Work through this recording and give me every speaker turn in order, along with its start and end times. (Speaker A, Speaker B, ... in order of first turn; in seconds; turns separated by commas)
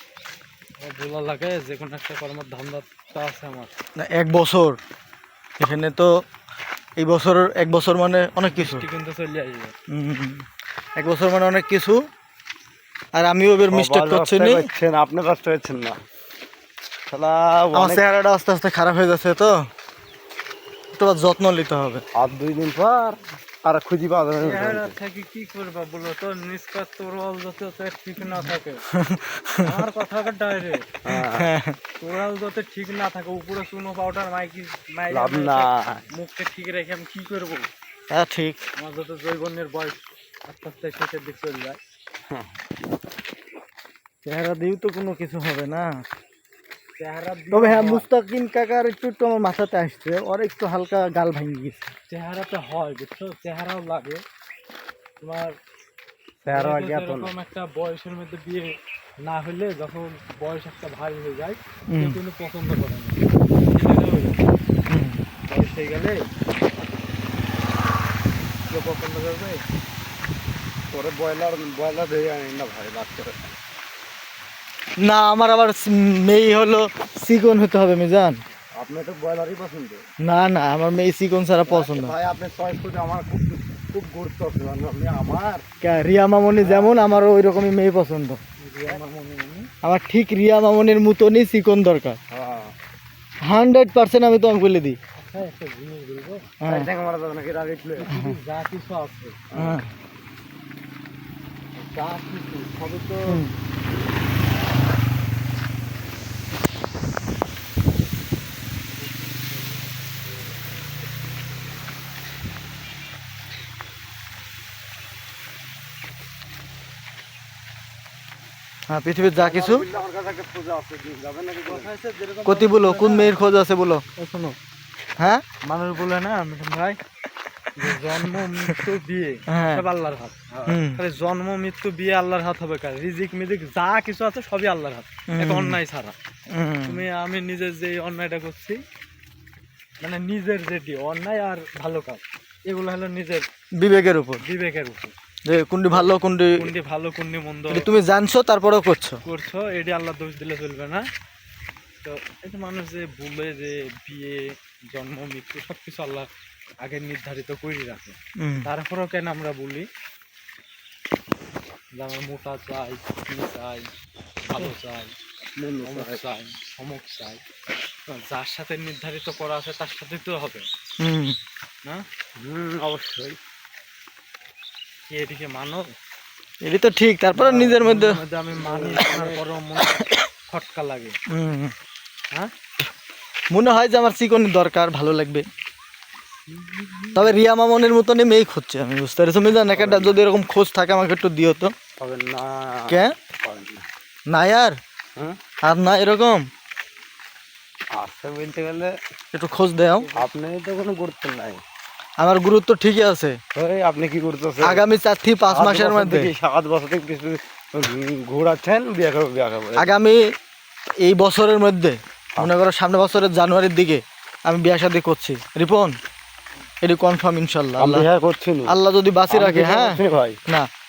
Speaker A: 0.8-3.7, Speaker B: 4.0-4.8, Speaker B: 5.6-6.1, Speaker B: 7.0-8.8, Speaker A: 8.5-9.7, Speaker B: 9.9-12.0, Speaker B: 13.1-14.7, Speaker C: 13.7-16.0, Speaker C: 17.1-18.0, Speaker B: 17.7-19.6, Speaker B: 20.9-22.0, Speaker C: 22.1-24.9, Speaker A: 24.4-28.8, Speaker B: 28.4-29.7, Speaker A: 29.6-30.9, Speaker C: 31.0-31.5, Speaker B: 31.1-31.8, Speaker A: 32.0-37.7, Speaker C: 35.1-36.0, Speaker B: 38.1-38.6, Speaker A: 38.8-41.8, Speaker B: 44.2-46.0, Speaker A: 47.0-48.0, Speaker B: 47.5-51.9, Speaker A: 52.1-54.2, Speaker A: 55.2-55.5, Speaker C: 56.4-57.3, Speaker A: 56.5-64.4, Speaker B: 61.9-62.2, Speaker B: 64.9-65.2, Speaker A: 65.5-66.2, Speaker A: 68.7-69.6, Speaker C: 70.9-73.5, Speaker B: 75.0-78.4, Speaker C: 78.7-80.0, Speaker B: 80.2-82.1, Speaker C: 81.7-85.6, Speaker B: 85.8-88.4, Speaker C: 86.6-86.9, Speaker A: 88.6-89.7, Speaker B: 89.8-92.2, Speaker C: 92.3-92.7, Speaker B: 93.5-95.0, Speaker A: 95.2-96.5, Speaker B: 96.6-96.9, Speaker C: 96.7-98.2, Speaker A: 98.0-99.4, Speaker B: 98.1-98.4, Speaker C: 99.5-99.8, Speaker B: 99.5-99.8, Speaker A: 101.8-103.4, Speaker B: 103.3-103.5, Speaker A: 109.0-110.4, Speaker B: 118.9-119.8, Speaker C: 119.3-121.9, Speaker A: 121.7-123.4, Speaker B: 122.5-124.0, Speaker A: 124.2-124.5, Speaker B: 125.2-125.4, Speaker A: 125.6-127.0, Speaker A: 127.8-136.1, Speaker B: 129.5-129.8, Speaker B: 130.7-131.0, Speaker B: 135.3-135.8, Speaker B: 136.5-137.0, Speaker A: 136.8-138.8, Speaker A: 140.0-143.4, Speaker B: 143.8-144.4, Speaker A: 144.4-145.1, Speaker B: 145.4-146.7, Speaker A: 145.9-147.8, Speaker B: 147.7-149.2, Speaker A: 149.2-151.1, Speaker A: 152.0-156.3, Speaker A: 156.8-159.9, Speaker B: 158.4-158.7, Speaker A: 162.0-163.9, Speaker A: 164.4-165.1, Speaker C: 165.6-166.2, Speaker A: 165.8-167.4, Speaker A: 168.1-170.6, Speaker B: 171.0-171.3, Speaker C: 172.4-173.4, Speaker A: 175.1-175.8, Speaker B: 176.6-178.2, Speaker A: 177.3-181.2, Speaker C: 178.6-179.4, Speaker B: 179.9-180.2, Speaker B: 181.3-181.7, Speaker B: 183.5-185.4, Speaker A: 186.5-187.3, Speaker B: 187.2-191.7, Speaker C: 189.7-190.2, Speaker C: 192.0-193.8, Speaker B: 194.3-194.8, Speaker B: 195.6-196.5, Speaker C: 197.9-198.9, Speaker B: 199.3-200.1, Speaker C: 200.1-201.6, Speaker B: 202.2-203.4, Speaker C: 203.5-204.8, Speaker B: 204.6-206.3, Speaker C: 205.5-209.9, Speaker B: 209.8-210.2, Speaker B: 211.0-215.9, Speaker B: 216.8-218.1, Speaker C: 217.8-218.8, Speaker B: 218.7-220.7, Speaker C: 219.3-220.4